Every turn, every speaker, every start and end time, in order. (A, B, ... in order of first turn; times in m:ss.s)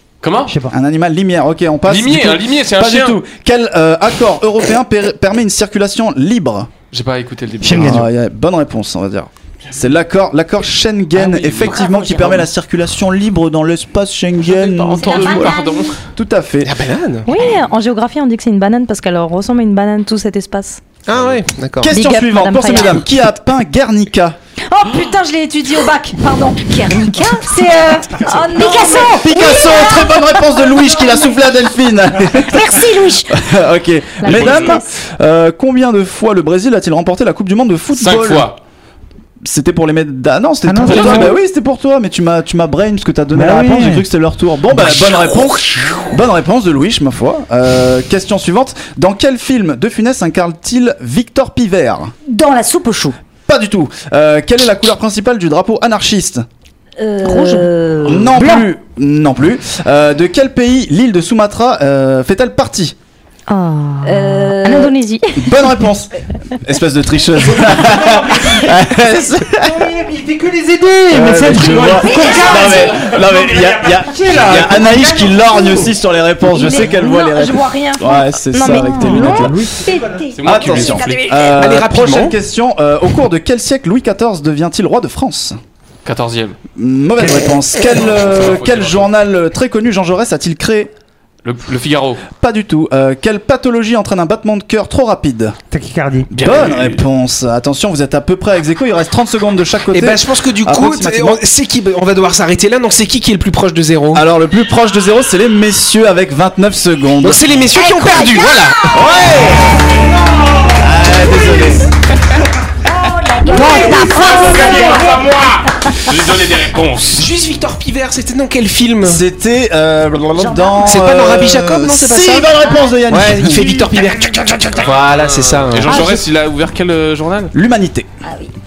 0:00.2-0:00.6 A
0:00.5-0:00.7 B
0:00.7-0:06.7 C
0:01.8-0:03.2 A
0:06.9-0:08.1 A
0:07.6-0:08.0 B
0:07.6-0:15.5 C
0:11.2-0:12.4 D
0:11.3-0:11.7 A
0:14.4-0:16.0 A
0:15.0-0:15.9 E
0:15.0-0:15.6 D
0:16.2-0:16.8 C
0:16.6-0:17.3 F
0:17.2-0:20.8 E
0:21.0-0:21.9 F
0:21.1-0:21.4 A
0:21.8-0:24.4 C
0:21.9-0:23.0 E
0:24.8-0:25.0 D
0:24.8-0:30.1 E
0:25.7-0:27.8 D
0:28.5-0:31.4 D
0:28.9-0:38.5 C
0:32.3-0:33.3 D
0:34.2-0:34.9 E
0:34.3-0:34.8 A
0:37.9-0:38.6 A
0:39.4-0:52.1 C
0:40.6-0:41.2 B
0:40.9-0:41.3 A
0:40.9-0:41.3 E
0:43.3-0:44.0 B
0:52.3-0:53.2 D
0:53.5-0:56.4 C
0:57.0-0:58.6 D
0:58.0-1:02.9 C
1:03.5-1:05.6 E
1:04.0-1:05.0 D
1:05.4-1:09.9 C
1:08.0-1:08.7 B
1:09.5-1:15.7 B
1:11.1-1:19.6 C
1:11.8-1:13.2 E
1:12.0-1:13.1 D
1:15.5-1:15.8 E
1:16.4-1:21.6 E
1:18.6-1:20.3 B
1:20.3-1:21.3 A
1:20.4-1:25.6 C
1:21.5-1:22.3 F
1:26.0-1:26.6 A
1:26.8-1:30.9 C
1:27.2-1:27.6 B
1:27.9-1:29.1 A
1:31.4-1:32.2 A
1:32.3-1:35.6 C
1:35.7-1:36.3 B
1:36.3-1:41.4 C
1:36.3-1:37.0 A
1:39.9-1:44.2 F
1:44.1-1:47.6 C
1:47.2-1:49.0 F
1:47.8-1:48.9 D
1:48.9-1:50.0 C
1:50.7-1:51.9 C
1:52.8-1:55.3 D
1:53.5-1:54.2 E
1:53.6-1:54.0 C
1:53.9-1:57.2 A
1:57.1-1:59.2 F
1:59.0-2:03.9 C
2:00.4-2:01.0 D
2:00.8-2:02.5 F
2:02.6-2:02.9 D
2:03.1-2:06.0 F
2:03.9-2:04.5 B
2:04.8-2:07.5 A
2:05.9-2:06.2 E
2:07.5-2:08.1 C
2:08.2-2:08.5 D